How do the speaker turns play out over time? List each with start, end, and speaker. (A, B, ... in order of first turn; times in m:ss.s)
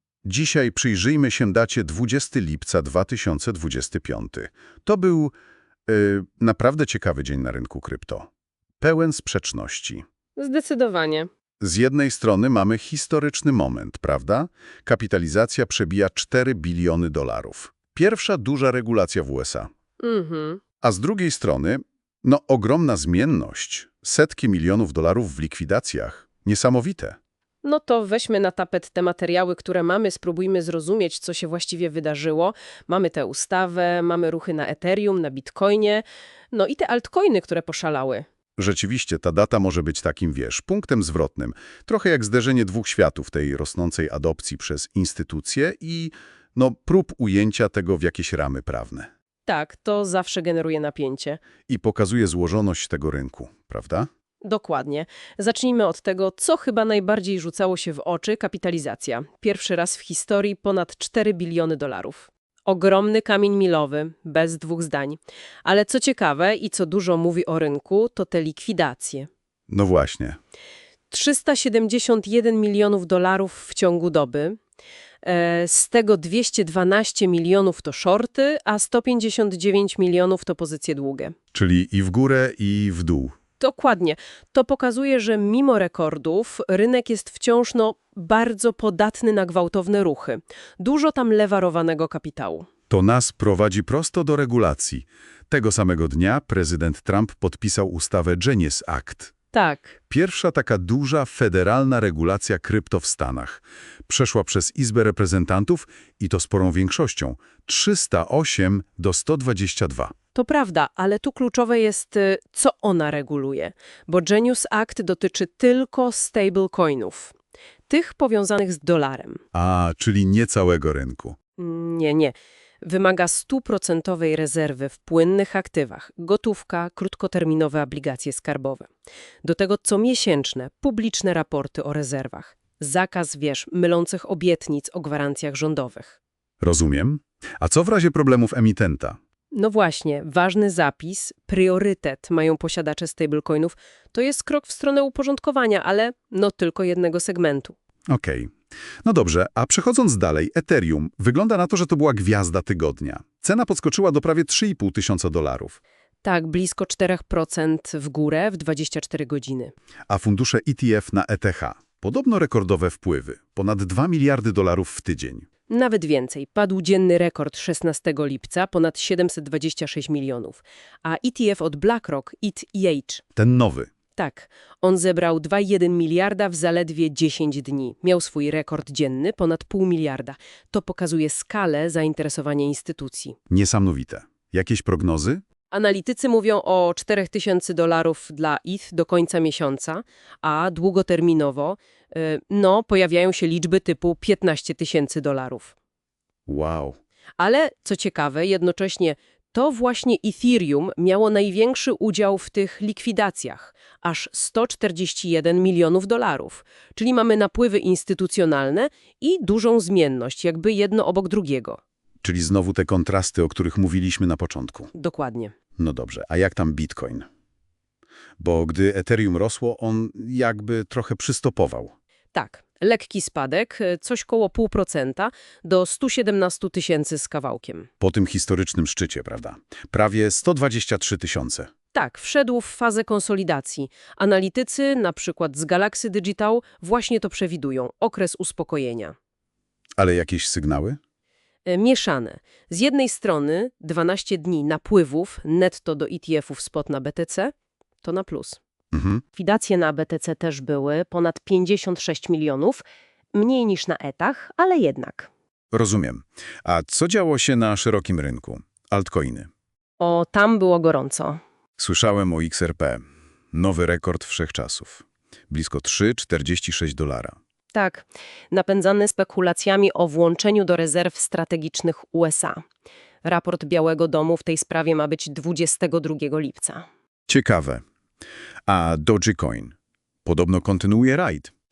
0:00.2-0:05.3 A
0:05.9-0:08.3 A
0:08.8-0:10.0 A
0:10.4-0:11.3 B
0:11.6-0:19.7 A
0:20.0-0:20.6 B
0:20.8-0:27.2 A
0:27.6-0:38.2 B
0:38.6-0:49.1 A
0:49.4-0:51.4 B
0:51.7-0:54.1 A
0:54.4-1:09.3 B
1:09.7-1:10.4 A
1:11.1-1:14.6 B
1:15.2-1:21.3 B
1:21.5-1:23.4 A
1:23.6-1:32.7 B
1:32.9-1:39.3 A
1:39.5-1:40.0 B
1:40.1-1:50.1 A
1:50.3-1:57.3 B
1:57.9-1:59.4 B
1:59.5-2:01.4 A
2:01.6-2:08.9 B
2:09.4-2:16.2 B
2:16.6-2:19.2 A
2:19.5-2:27.7 B
2:28.1-2:28.5 A
2:29.0-2:35.8 A
2:36.2-2:39.7 B
2:40.1-2:45.5 A
2:45.7-2:53.2 B
2:53.4-2:53.9 A
2:54.2-3:03.4 B
3:03.5-3:05.4 A
3:05.7-3:15.7 B
3:16.5-3:17.0 A
3:17.4-3:31.8 B
3:32.2-3:34.9 A
3:34.9-3:35.5 B
3:35.8-3:37.2 A
3:38.4-3:41.9 A
3:42.3-3:47.9 B
3:48.0-3:51.7 A
3:51.9-3:59.1 B
4:00.0-4:01.0 A
4:01.6-4:08.6 B
4:08.9-4:09.2 A
4:09.4-4:12.8 B
4:13.3-4:15.3 B
4:15.7-4:19.5 A
4:20.0-4:21.4 B
4:21.8-4:27.4 A
4:27.7-4:32.6 B
4:33.2-4:36.8 B
4:37.3-4:37.8 A
4:38.7-4:41.5 A